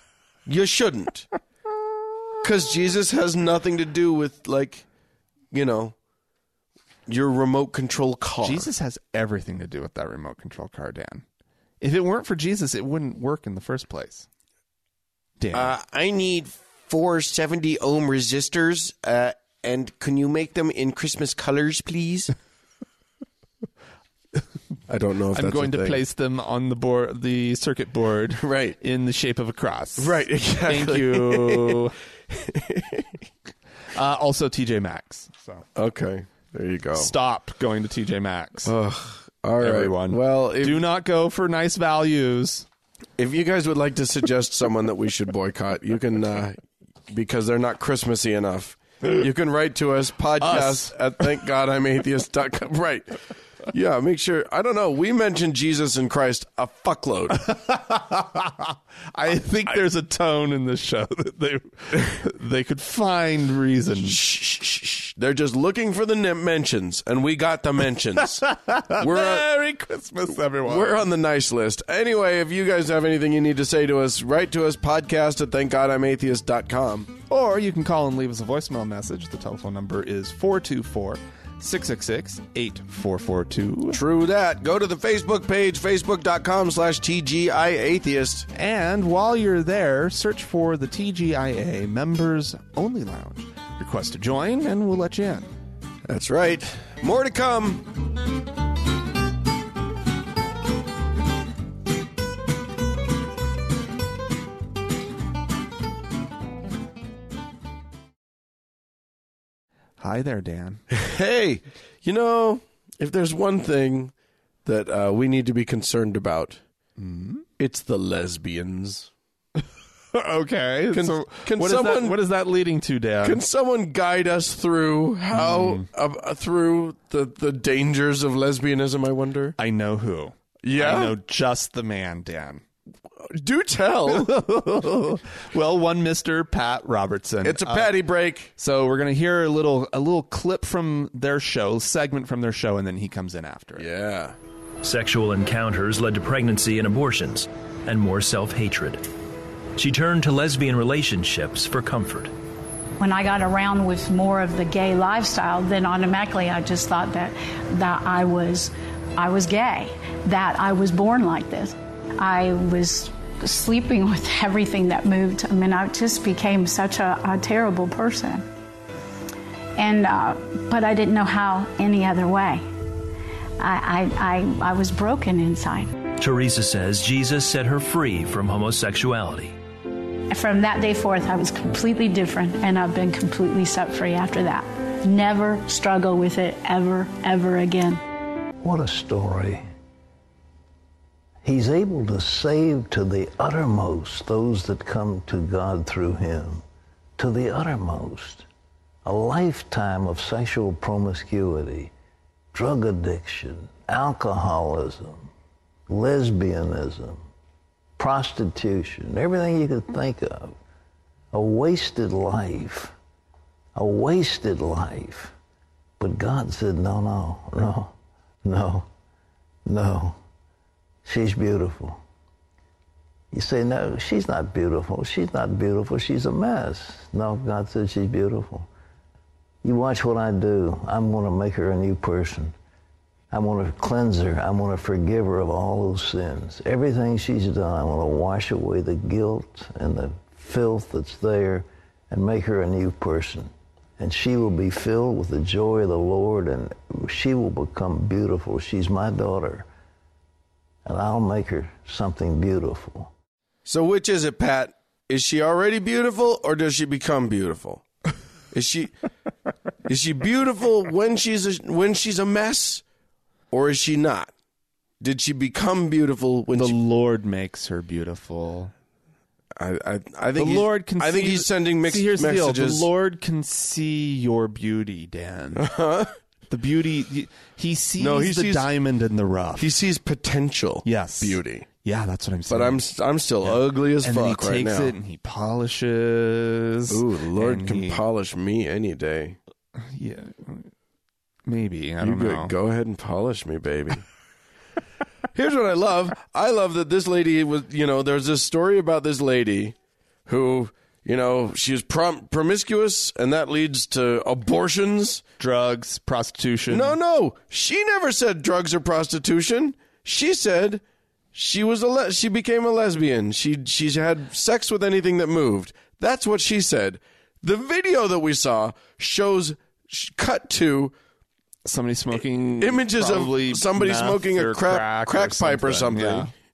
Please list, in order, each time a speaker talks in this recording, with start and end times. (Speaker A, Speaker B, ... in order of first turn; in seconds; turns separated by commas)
Speaker A: 0.5-1.3, Speaker A: 2.4-4.8, Speaker A: 5.5-6.0, Speaker A: 7.1-8.7, Speaker B: 8.4-11.2, Speaker B: 11.8-14.3, Speaker B: 15.4-15.8, Speaker A: 15.5-22.3, Speaker A: 24.9-26.0, Speaker B: 25.3-32.0, Speaker A: 28.4-28.8, Speaker A: 30.0-33.2, Speaker B: 34.0-35.6, Speaker A: 35.8-37.1, Speaker B: 37.0-38.7, Speaker A: 38.6-40.9, Speaker B: 39.6-42.7, Speaker A: 43.2-57.4, Speaker B: 50.4-51.2, Speaker B: 57.4-64.2, Speaker A: 64.0-69.5, Speaker B: 68.2-71.0, Speaker A: 70.7-77.1, Speaker B: 77.3-84.0, Speaker A: 83.9-88.5, Speaker B: 88.5-95.5, Speaker A: 96.1-97.9, Speaker B: 110.0-110.8, Speaker A: 110.9-114.1, Speaker A: 114.7-116.6, Speaker B: 117.0-117.5, Speaker A: 117.6-119.1, Speaker B: 120.1-123.4, Speaker A: 120.9-122.2, Speaker A: 123.2-129.6, Speaker B: 125.3-125.9, Speaker B: 129.6-132.6, Speaker A: 130.6-131.2, Speaker A: 133.2-134.3, Speaker B: 134.1-138.0, Speaker A: 137.4-138.5, Speaker B: 138.6-143.9, Speaker A: 143.8-144.4, Speaker C: 144.8-149.0, Speaker C: 149.8-152.3, Speaker D: 153.0-168.4, Speaker D: 169.8-172.6, Speaker D: 173.6-176.0, Speaker C: 176.2-179.6, Speaker D: 180.3-188.0, Speaker E: 188.6-189.6, Speaker E: 191.4-196.6, Speaker E: 197.2-198.5, Speaker E: 199.1-201.9, Speaker E: 202.5-205.3, Speaker E: 205.9-207.2, Speaker E: 208.0-210.6, Speaker E: 211.3-212.9, Speaker E: 213.8-215.3, Speaker E: 216.0-218.9, Speaker E: 219.7-220.2, Speaker E: 221.1-222.0, Speaker E: 223.3-228.7, Speaker E: 229.6-232.5, Speaker E: 233.3-249.7, Speaker E: 250.8-253.1, Speaker A: 253.7-257.8, Speaker A: 258.5-258.9, Speaker A: 259.9-262.8, Speaker A: 263.5-264.3, Speaker A: 265.0-266.8, Speaker B: 266.5-268.7, Speaker A: 269.6-272.9, Speaker B: 270.4-275.7, Speaker A: 275.6-276.1, Speaker B: 276.5-279.7, Speaker A: 278.0-278.7, Speaker A: 279.6-281.7, Speaker B: 280.9-282.8, Speaker A: 282.5-284.9, Speaker B: 283.4-288.0, Speaker A: 286.9-289.4, Speaker B: 289.8-290.7, Speaker B: 291.5-292.5, Speaker A: 292.0-294.1, Speaker A: 295.3-305.2, Speaker B: 305.4-307.0, Speaker A: 306.7-310.8, Speaker A: 311.3-320.9, Speaker B: 321.6-326.3, Speaker A: 322.2-326.3